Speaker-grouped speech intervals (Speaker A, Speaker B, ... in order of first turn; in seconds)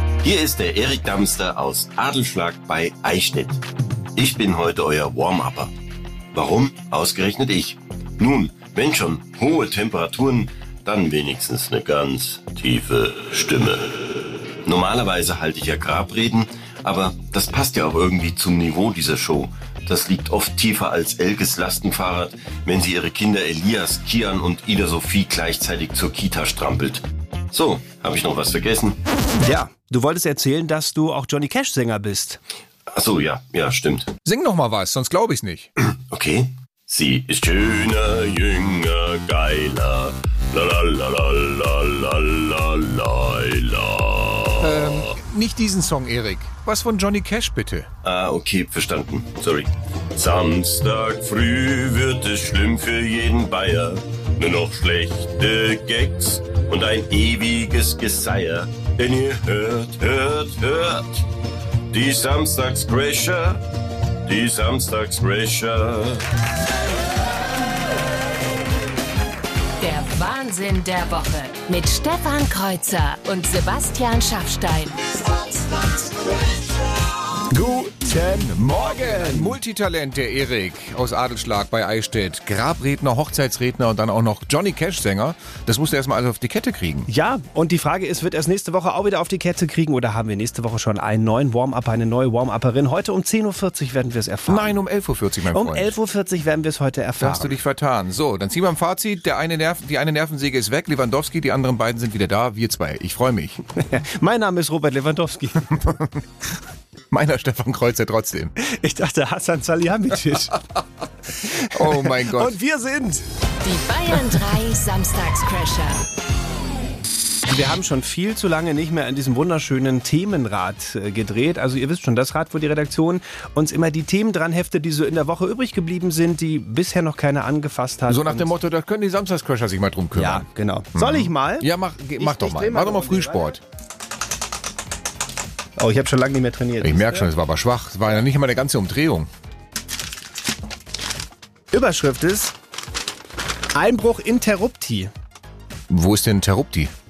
Speaker A: 0.2-3.6, 4.2-5.7, 6.3-29.0, 32.9-34.1, 36.1-45.1, 48.0-61.2, 61.9-63.6, 64.2-66.2
Speaker B: 29.4-32.4, 77.5-79.5, 87.1-94.8, 95.5-97.5, 103.8-105.7, 108.6-110.6, 111.4-113.2, 117.5-128.5, 130.1-133.5, 135.8-137.3, 141.7-142.5, 143.7-145.1
Speaker C: 34.2-35.7, 44.6-47.9, 78.4-87.1, 94.5-95.9, 97.2-103.6, 105.7-106.2, 107.1-108.5, 111.7-112.6, 128.1-133.6, 136.8-139.3, 145.9-146.9
Speaker D: 69.8-75.2, 113.6-116.0